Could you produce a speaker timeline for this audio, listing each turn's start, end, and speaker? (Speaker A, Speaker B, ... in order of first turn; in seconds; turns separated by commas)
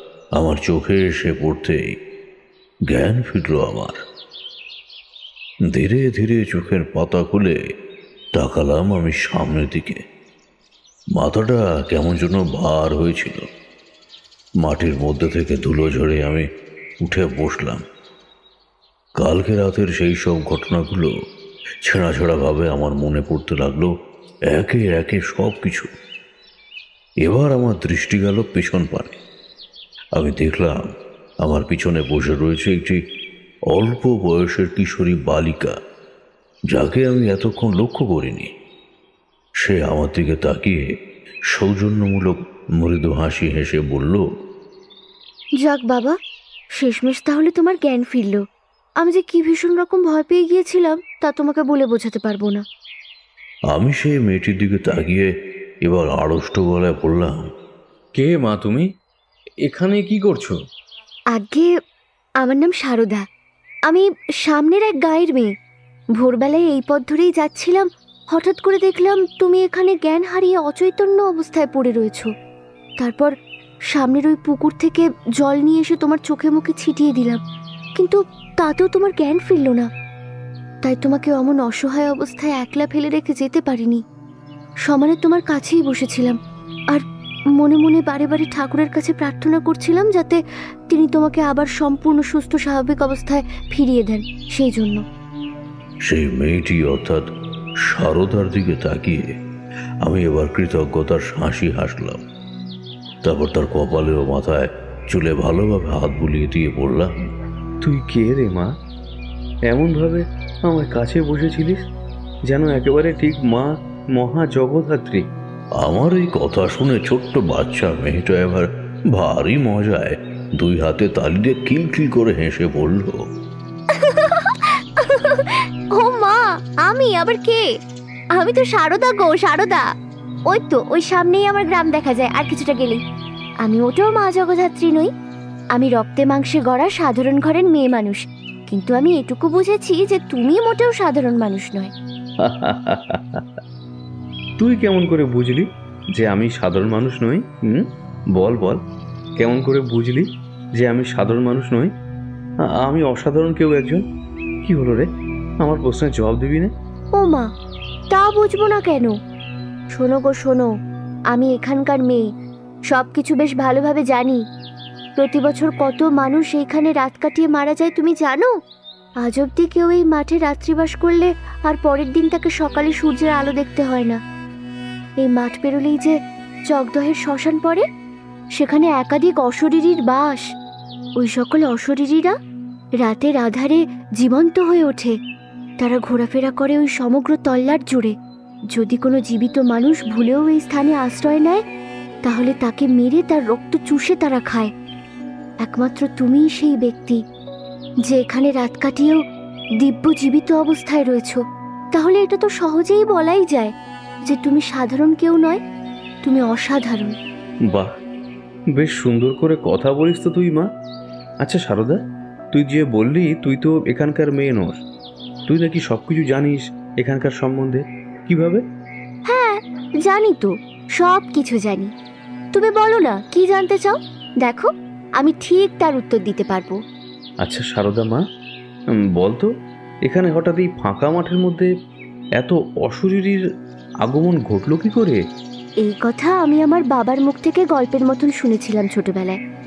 Speaker A: 0.4-1.9, Speaker A: 2.9-4.0, Speaker A: 5.7-7.6, Speaker A: 8.4-10.0, Speaker A: 11.2-13.5, Speaker A: 14.6-16.5, Speaker A: 17.0-17.8, Speaker A: 19.2-21.1, Speaker A: 21.9-23.9, Speaker A: 24.5-25.9, Speaker A: 27.2-29.2, Speaker A: 30.2-33.0, Speaker A: 33.7-35.8, Speaker A: 36.7-38.5, Speaker A: 39.6-40.8, Speaker A: 41.5-44.2, Speaker B: 45.6-46.2, Speaker B: 46.8-48.4, Speaker B: 49.0-52.6, Speaker A: 53.7-55.3, Speaker A: 55.9-57.5, Speaker C: 58.2-58.9, Speaker C: 59.7-60.6, Speaker B: 61.4-61.7, Speaker B: 62.4-63.2, Speaker B: 63.9-65.5, Speaker B: 66.2-72.3, Speaker B: 73.0-73.3, Speaker B: 73.9-77.4, Speaker B: 78.0-79.9, Speaker B: 80.8-84.0, Speaker B: 84.9-86.4, Speaker B: 87.6-95.0, Speaker A: 96.1-97.2, Speaker A: 97.9-99.3, Speaker A: 100.0-102.2, Speaker A: 103.2-107.3, Speaker C: 107.8-108.7, Speaker C: 109.7-111.8, Speaker C: 112.5-115.3, Speaker A: 115.8-123.2, Speaker B: 123.9-127.7, Speaker B: 128.4-129.9, Speaker B: 130.5-133.0, Speaker B: 133.6-135.1, Speaker B: 135.8-141.9, Speaker C: 142.4-143.4, Speaker C: 144.6-148.8, Speaker C: 149.4-151.9, Speaker C: 152.7-154.0, Speaker C: 154.6-155.1, Speaker C: 155.6-156.7, Speaker B: 157.2-157.5, Speaker B: 158.1-159.1, Speaker B: 159.9-160.7, Speaker B: 161.3-162.3, Speaker B: 162.9-164.4, Speaker B: 165.2-168.5, Speaker B: 169.2-174.2, Speaker B: 175.2-176.2, Speaker B: 176.7-177.8, Speaker B: 178.6-180.5, Speaker B: 181.2-182.3, Speaker B: 183.0-185.2, Speaker B: 185.8-188.2, Speaker B: 188.7-191.6, Speaker B: 192.2-194.7, Speaker B: 195.6-197.2, Speaker B: 198.1-199.2, Speaker B: 199.8-201.4, Speaker B: 201.9-203.7, Speaker B: 204.3-205.6, Speaker B: 206.2-207.1, Speaker C: 208.8-210.7, Speaker C: 211.4-212.0, Speaker C: 212.5-214.8, Speaker C: 215.5-218.6, Speaker B: 219.3-221.9, Speaker B: 222.5-226.8, Speaker C: 227.4-228.2, Speaker C: 229.2-229.5, Speaker C: 230.1-231.7, Speaker C: 232.4-233.4, Speaker C: 234.0-235.2, Speaker B: 235.8-239.4